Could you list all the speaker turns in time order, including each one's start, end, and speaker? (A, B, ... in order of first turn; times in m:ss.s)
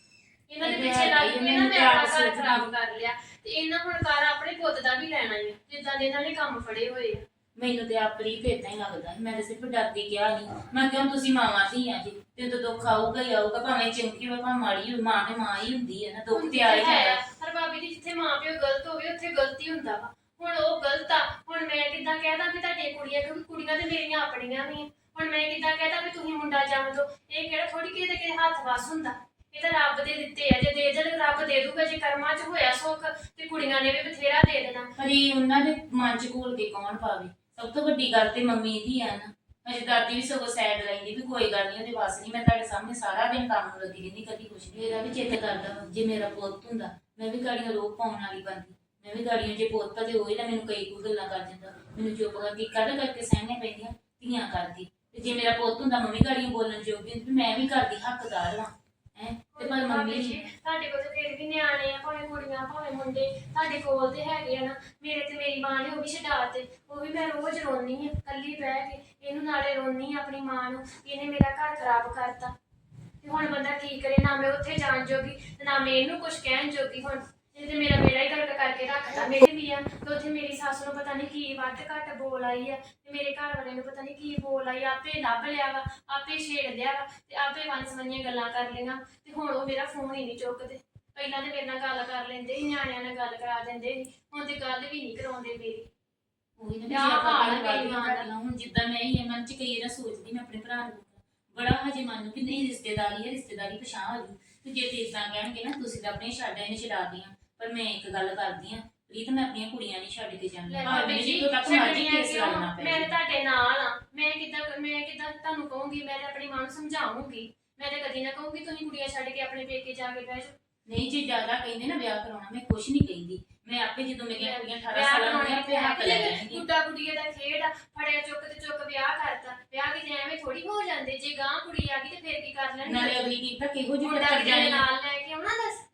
0:00.5-0:07.2 A
0:00.6-0:02.7 B
0:07.6-0:17.2 B
0:16.3-0:34.9 A
0:35.0-1:00.4 B
0:59.6-1:12.5 A
1:13.2-1:35.9 A
1:36.6-1:53.1 B
1:36.9-1:38.2 A
1:50.7-2:00.5 A
2:00.9-2:06.6 B
2:04.4-2:13.4 A
2:12.9-2:14.8 B
2:14.0-2:15.8 A